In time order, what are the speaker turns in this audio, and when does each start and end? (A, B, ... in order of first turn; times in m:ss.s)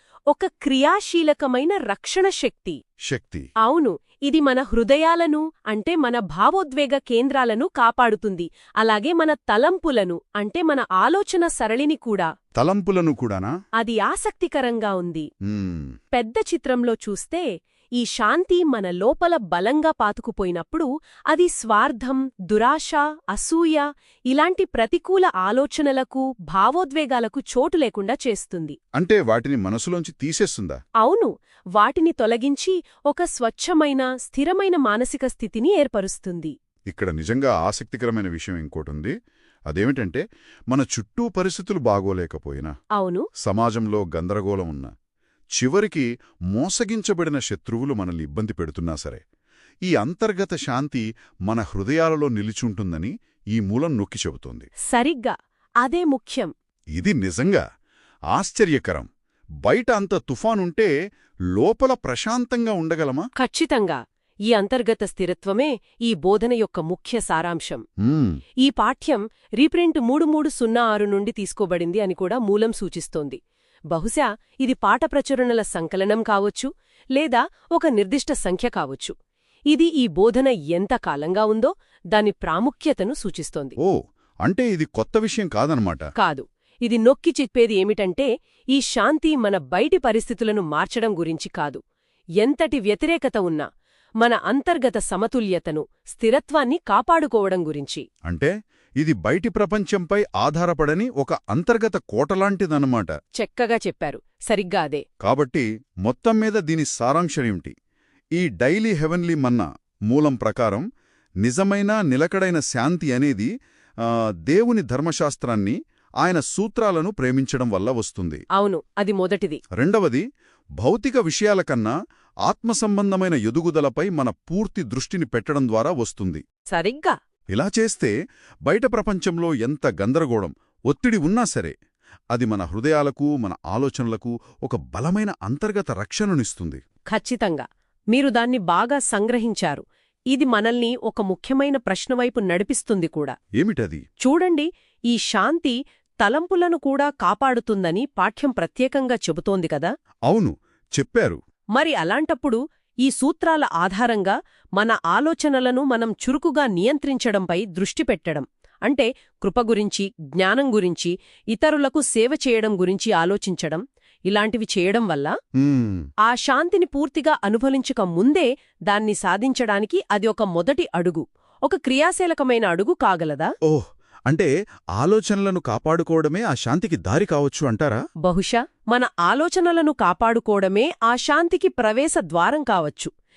0:00.3-0:02.8 A
0:03.1-0:03.5 B
0:03.6-0:12.3 A
0:12.6-0:13.5 B
0:13.8-0:15.3 A
0:15.5-0:15.9 B
0:16.2-0:17.4 A
0:18.0-0:28.8 A
0:29.0-0:30.8 B
0:31.0-0:36.5 A
0:36.9-0:39.1 B
0:39.7-0:42.7 B
0:43.0-0:43.2 A
0:43.4-0:44.9 B
0:45.6-0:49.2 B
0:49.9-0:54.7 B
0:54.9-0:56.5 A
0:57.0-0:57.6 B
0:58.3-0:59.1 B
0:59.6-1:00.9 B
1:01.6-1:03.3 B
1:03.4-1:04.0 A
1:04.5-1:07.8 A
1:08.0-1:08.4 B
1:08.6-1:13.4 A
1:13.9-1:19.1 A
1:19.7-1:23.8 A
1:23.8-1:26.1 B
1:26.2-1:31.8 A
1:32.4-1:33.7 A
1:34.2-1:38.0 A
1:38.3-1:43.1 B
1:43.4-1:45.0 A
1:45.2-1:47.7 B
1:48.4-1:50.9 B
1:51.4-1:53.5 B
1:54.0-1:58.4 B
1:58.6-1:59.6 A
1:59.8-2:00.2 B
2:00.8-2:01.9 B
2:02.5-2:06.4 B
2:06.7-2:07.2 A
2:07.5-2:08.1 B
2:08.7-2:11.7 B
2:12.3-2:16.8 B
2:17.1-2:23.3 A
2:23.6-2:24.0 B
2:24.2-2:29.9 A
2:30.3-2:31.4 B
2:31.8-2:45.3 A
2:45.6-2:46.1 B
2:46.3-2:53.5 A
2:53.6-2:58.0 B
2:58.2-3:03.1 A